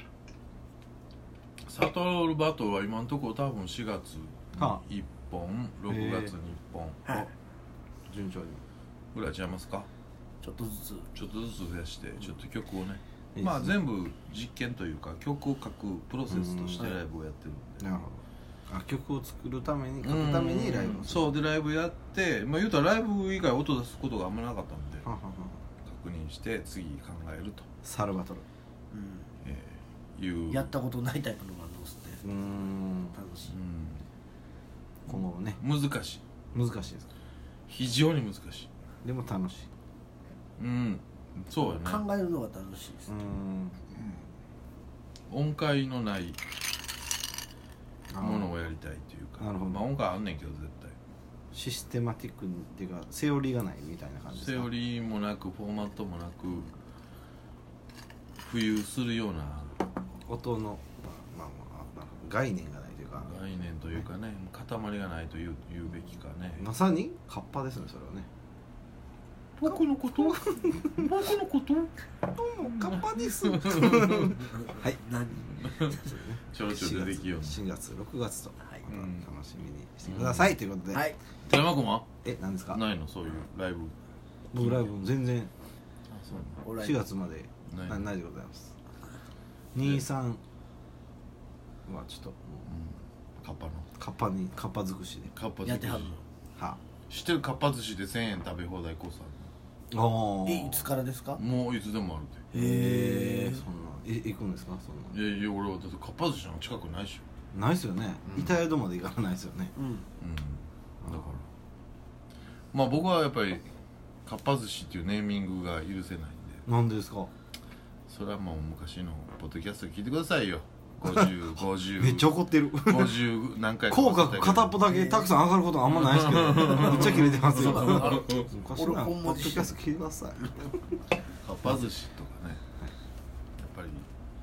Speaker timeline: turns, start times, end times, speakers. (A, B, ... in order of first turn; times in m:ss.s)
0:01.7-0:07.1 A
0:04.6-0:04.8 B
0:05.9-0:06.3 B
0:08.1-0:08.6 B
0:09.1-0:09.9 A
0:10.4-0:11.1 C
0:11.1-0:17.8 A
0:13.3-0:13.8 B
0:16.3-0:16.9 B
0:17.8-0:21.3 B
0:20.0-0:25.0 A
0:25.0-0:25.6 B
0:25.8-0:27.6 A
0:27.8-0:28.4 B
0:28.9-0:29.3 C
0:29.4-0:30.7 A
0:30.5-0:32.2 C
0:32.2-0:33.2 B
0:33.1-0:33.5 C
0:33.5-0:34.0 A
0:35.0-0:35.6 B
0:35.1-0:36.2 A
0:36.5-0:37.1 B
0:37.7-0:38.7 A
0:39.0-0:39.7 B
0:40.6-0:42.0 A
0:41.8-0:43.1 C
0:43.1-0:43.8 B
0:45.3-0:46.4 A
0:48.1-0:48.5 B
0:48.2-0:51.0 A
0:49.4-0:49.8 B
0:51.5-0:54.7 B
0:54.4-0:56.7 A
0:58.4-0:59.8 A
1:00.3-1:03.4 B
1:03.2-1:06.6 A
1:06.6-1:08.3 B
1:09.6-1:12.0 A
1:09.6-1:11.1 B
1:12.2-1:15.0 B
1:12.6-1:14.5 A
1:14.5-1:16.2 C
1:15.5-1:17.6 A
1:16.1-1:21.0 B
1:18.8-1:19.2 A
1:20.0-1:20.5 A
1:20.9-1:21.2 C
1:21.5-1:22.1 A
1:22.2-1:22.8 B
1:22.7-1:23.9 A
1:24.5-1:25.5 B
1:26.1-1:26.6 A
1:26.6-1:27.0 C
1:26.8-1:28.7 B
1:27.7-1:28.0 A
1:29.7-1:30.4 B
1:31.9-1:32.6 B
1:32.6-1:33.9 A
1:34.0-1:35.3 B
1:35.3-1:36.2 A
1:35.6-1:36.2 C
1:37.1-1:39.5 A
1:39.9-1:40.9 B
1:40.4-1:41.4 C
1:41.4-1:42.5 A
1:42.5-1:43.6 C
1:42.5-1:45.2 B
1:45.1-1:47.2 A
1:47.5-1:49.7 B
1:48.2-1:48.6 A
1:49.8-1:50.1 C
1:50.2-1:51.4 A
1:52.7-1:53.6 A
1:54.2-1:56.6 A
1:56.6-1:57.3 B
1:58.1-2:04.8 A
2:01.0-2:01.3 B
2:01.9-2:03.2 B
2:03.9-2:10.9 B
2:04.8-2:05.3 C
2:05.9-2:08.5 A
2:06.5-2:09.7 C
2:11.4-2:12.6 A
2:11.6-2:11.9 B
2:13.6-2:14.1 A